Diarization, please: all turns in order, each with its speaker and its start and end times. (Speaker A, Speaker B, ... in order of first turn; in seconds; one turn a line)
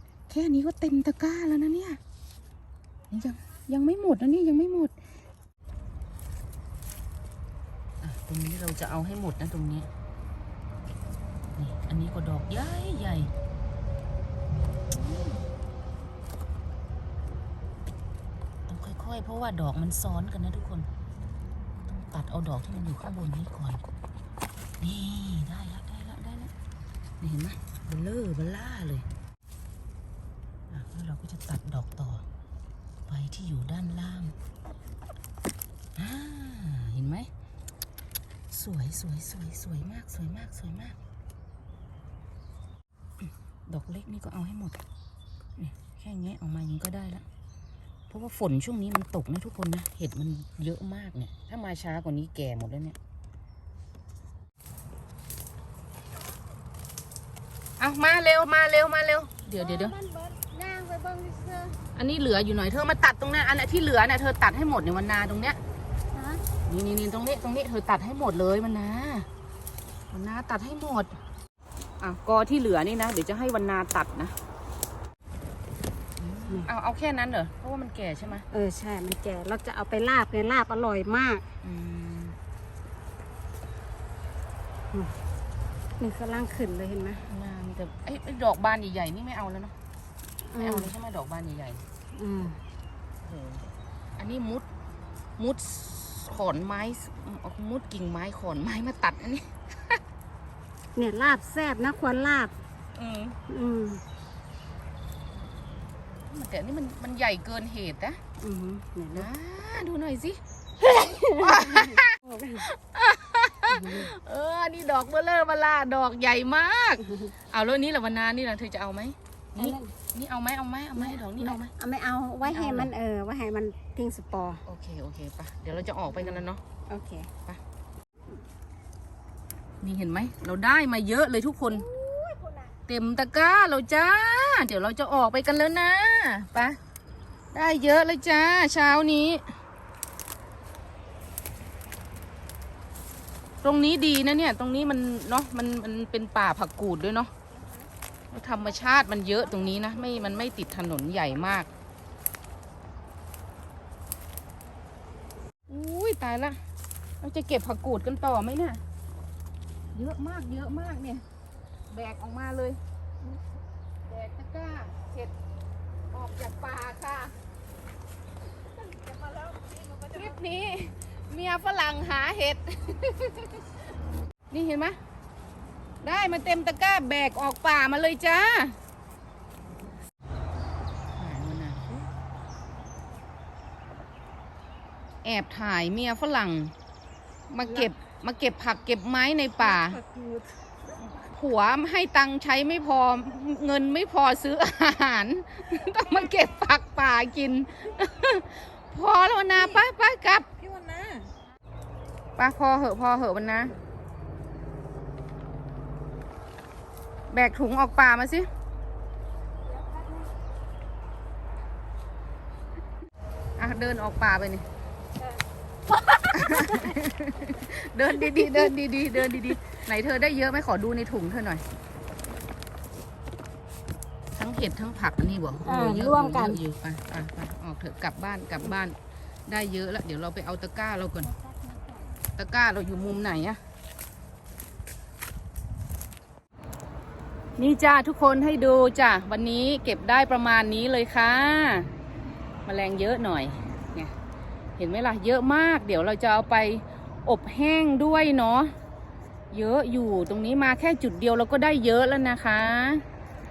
Speaker A: 0.3-2.0
Speaker A: 3.1-4.9
Speaker A: 8.0-9.9
Speaker A: 11.6-13.3
Speaker A: 14.9-15.4
Speaker A: 18.7-20.9
Speaker A: 21.8-23.8
Speaker A: 24.8-26.5
Speaker A: 27.2-29.1
Speaker A: 30.7-32.2
Speaker A: 33.1-34.4
Speaker A: 36.0-37.3
Speaker A: 38.5-41.0
Speaker A: 43.7-44.8
Speaker A: 45.6-47.2
Speaker A: 48.1-53.0
Speaker A: 57.8-59.9
Speaker B: 59.5-61.8
Speaker A: 61.9-65.6
Speaker B: 66.1-66.4
Speaker A: 66.7-69.3
Speaker A: 70.1-71.2
Speaker A: 72.0-74.3
Speaker A: 76.2-78.5
Speaker B: 78.5-81.4
Speaker A: 81.6-82.3
Speaker B: 86.0-87.2
Speaker A: 87.2-89.7
Speaker B: 90.5-90.9
Speaker A: 90.6-91.8
Speaker B: 92.1-92.6
Speaker A: 93.2-94.7
Speaker A: 95.4-100.0
Speaker B: 101.0-102.5
Speaker A: 102.9-103.3
Speaker B: 103.5-104.0
Speaker A: 106.3-108.2
Speaker B: 108.4-109.3
Speaker A: 109.1-121.7
Speaker B: 111.1-112.7
Speaker B: 113.7-114.1
Speaker B: 117.0-117.3
Speaker B: 119.6-119.9
Speaker B: 121.0-124.6
Speaker A: 122.4-122.9
Speaker A: 124.7-126.6
Speaker B: 126.1-127.3
Speaker A: 129.8-131.8
Speaker B: 131.7-132.7
Speaker A: 132.9-136.8
Speaker A: 137.5-139.4
Speaker A: 143.6-147.3
Speaker A: 148.3-151.7
Speaker A: 155.7-156.6
Speaker A: 157.2-158.8
Speaker A: 159.9-161.2
Speaker A: 161.9-162.8
Speaker A: 164.1-165.3
Speaker A: 166.1-167.3
Speaker C: 169.1-169.9
Speaker A: 169.9-173.7
Speaker A: 174.5-175.0
Speaker A: 176.0-178.8
Speaker A: 181.2-181.8
Speaker A: 185.2-186.7
Speaker A: 187.5-190.0
Speaker C: 189.6-190.5
Speaker A: 191.1-200.5
Speaker C: 199.6-199.8
Speaker C: 200.6-201.3
Speaker A: 202.4-203.7
Speaker A: 207.3-208.5
Speaker A: 213.6-214.7
Speaker B: 215.9-217.0
Speaker A: 216.3-221.6
Speaker B: 218.3-218.7
Speaker A: 224.3-231.3
Speaker B: 225.6-226.6
Speaker B: 231.4-232.0
Speaker A: 232.3-233.6
Speaker A: 237.6-241.9
Speaker A: 242.6-244.1
Speaker A: 244.8-248.7
Speaker A: 249.5-253.0